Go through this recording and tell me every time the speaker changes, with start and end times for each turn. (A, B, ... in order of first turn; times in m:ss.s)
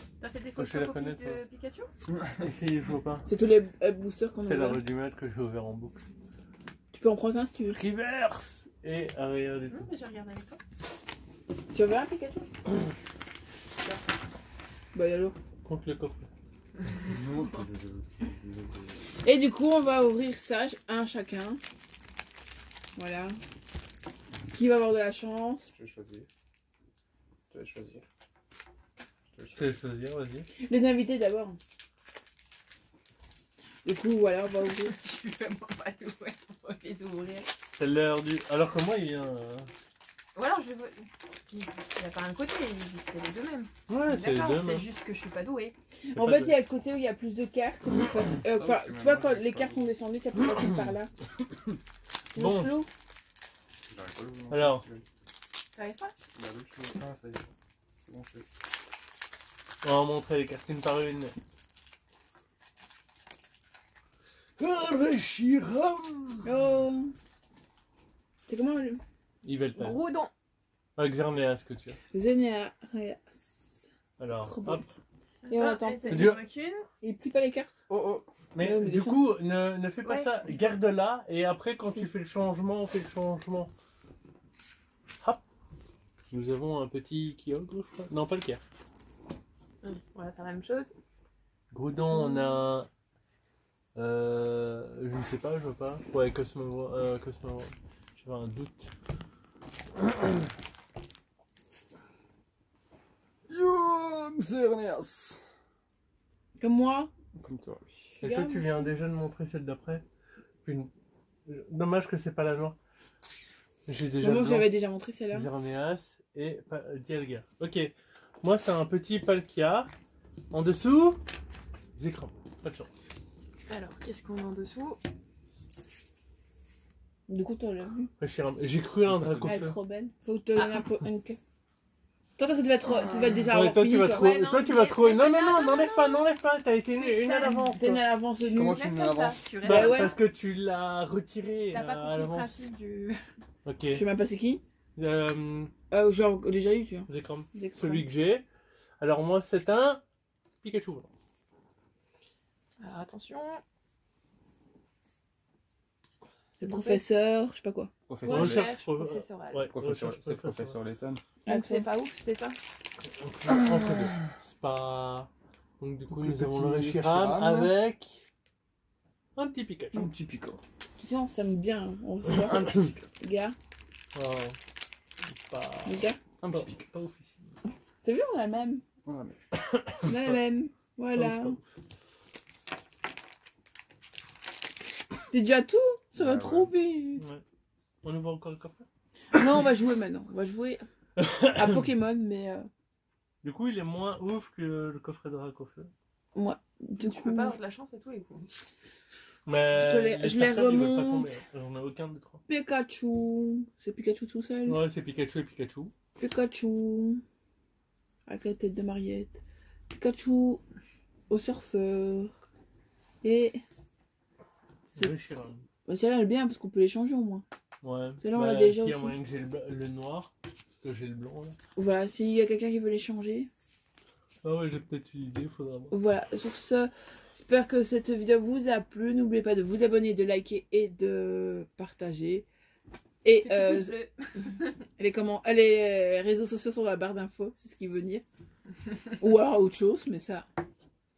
0:00.2-0:01.9 A
0:00.6-0:01.4 B
0:02.3-0:03.3 B
0:03.2-0:04.8 C
0:04.4-0:06.0 B
0:06.9-0:07.8 C
0:07.7-0:09.9 B
0:09.7-0:10.6 A
0:11.7-0:12.5 C
0:14.9-0:15.4 C
0:15.6-0:16.3 B
0:17.0-0:19.0 D
0:19.2-0:21.6 C
0:22.9-0:23.4 C
0:24.5-0:25.7 C
0:25.7-0:26.3 D
0:27.5-0:28.1 D
0:29.3-0:29.8 D
0:29.5-0:30.5 B
0:30.6-0:31.6 C
0:33.8-0:35.0 C
0:34.8-0:37.5 A
0:37.7-0:39.7 B
0:40.3-0:45.8 A
0:43.9-0:44.9 B
0:46.1-0:51.1 C
0:46.1-0:46.6 B
0:48.3-0:49.9 D
0:52.3-0:52.8 B
0:52.3-0:52.9 C
0:53.9-0:55.0 D
0:54.5-0:54.8 B
0:55.7-0:56.1 A
0:56.3-0:57.5 D
0:58.0-0:58.5 D
0:59.8-1:01.4 B
1:04.6-1:06.5 B
1:06.4-1:07.1 C
1:08.5-1:09.0 C
1:09.4-1:10.0 B
1:09.8-1:10.3 A
1:11.0-1:12.0 B
1:12.1-1:13.9 C
1:14.2-1:14.9 B
1:14.4-1:14.9 C
1:15.4-1:16.9 A
1:15.5-1:16.3 C
1:16.1-1:16.4 B
1:17.0-1:17.7 C
1:17.9-1:18.3 D
1:18.5-1:23.7 B
1:18.6-1:19.3 C
1:20.0-1:20.3 A
1:26.3-1:28.6 B
1:29.8-1:30.9 A
1:31.7-1:32.9 B
1:33.9-1:38.9 B
1:43.5-1:45.4 D
1:46.6-1:47.1 C
1:47.4-1:48.2 D
1:48.2-1:50.0 B
1:48.2-1:48.9 C
1:50.6-1:50.9 B
1:51.5-1:52.8 B
1:53.8-1:54.7 B
1:54.2-1:55.5 C
1:55.3-1:59.9 B
2:00.5-2:01.2 B
2:02.0-2:02.9 B
2:03.7-2:05.0 A
2:07.3-2:08.1 C
2:08.2-2:09.7 B
2:09.1-2:09.7 D
2:09.4-2:11.4 C
2:10.5-2:10.8 A
2:12.4-2:14.3 C
2:12.9-2:13.4 A
2:13.5-2:17.8 B
2:14.1-2:16.2 A
2:17.0-2:18.0 A
2:17.8-2:18.8 C
2:18.4-2:19.5 D
2:18.5-2:20.2 A
2:19.6-2:22.5 B
2:19.6-2:20.2 C
2:21.7-2:23.2 A
2:23.6-2:24.0 B
2:23.9-2:24.6 C
2:25.0-2:25.7 B
2:25.9-2:28.0 C
2:27.1-2:28.4 B
2:29.0-2:30.0 B
2:30.6-2:31.1 B
2:32.8-2:33.6 A
2:36.6-2:37.9 C
2:36.6-2:37.0 A
2:38.1-2:38.7 D
2:38.2-2:39.7 A
2:38.2-2:40.8 B
2:39.7-2:41.2 D
2:41.4-2:41.9 C
2:41.4-2:42.6 A
2:43.0-2:48.2 B
2:43.5-2:44.1 D
2:46.1-2:47.7 D
2:49.4-2:50.1 B
2:49.9-2:50.6 D
2:51.0-2:53.6 C
2:52.4-2:53.0 D
2:54.1-2:54.6 B
2:55.3-2:57.5 B
2:55.8-2:56.2 C
2:56.4-2:56.8 D
2:58.0-2:58.8 C
2:59.0-2:59.4 D
2:59.7-3:00.2 B
3:00.0-3:01.6 C
3:01.1-3:01.6 B
3:05.3-3:07.2 C
3:06.2-3:06.7 D
3:08.0-3:08.8 B
3:09.3-3:10.8 C
3:11.2-3:11.6 B
3:11.5-3:12.7 C
3:13.4-3:15.9 B
3:16.3-3:17.6 C
3:17.0-3:18.6 A
3:19.4-3:22.4 B
3:19.7-3:21.3 C
3:22.5-3:24.8 C
3:24.6-3:25.9 B
3:26.2-3:27.2 C
3:28.2-3:29.4 C
3:30.0-3:30.6 C
3:31.3-3:32.3 C
3:33.2-3:33.6 C
3:34.9-3:35.6 B
3:35.8-3:37.4 C
3:37.8-3:40.3 B
3:38.2-3:39.1 C
3:40.8-3:41.6 B
3:41.8-3:43.5 C
3:44.4-3:45.9 B
3:45.9-3:52.5 C
3:53.2-3:54.0 C
3:53.4-3:54.7 A
3:55.0-3:58.2 C
3:59.2-4:00.4 C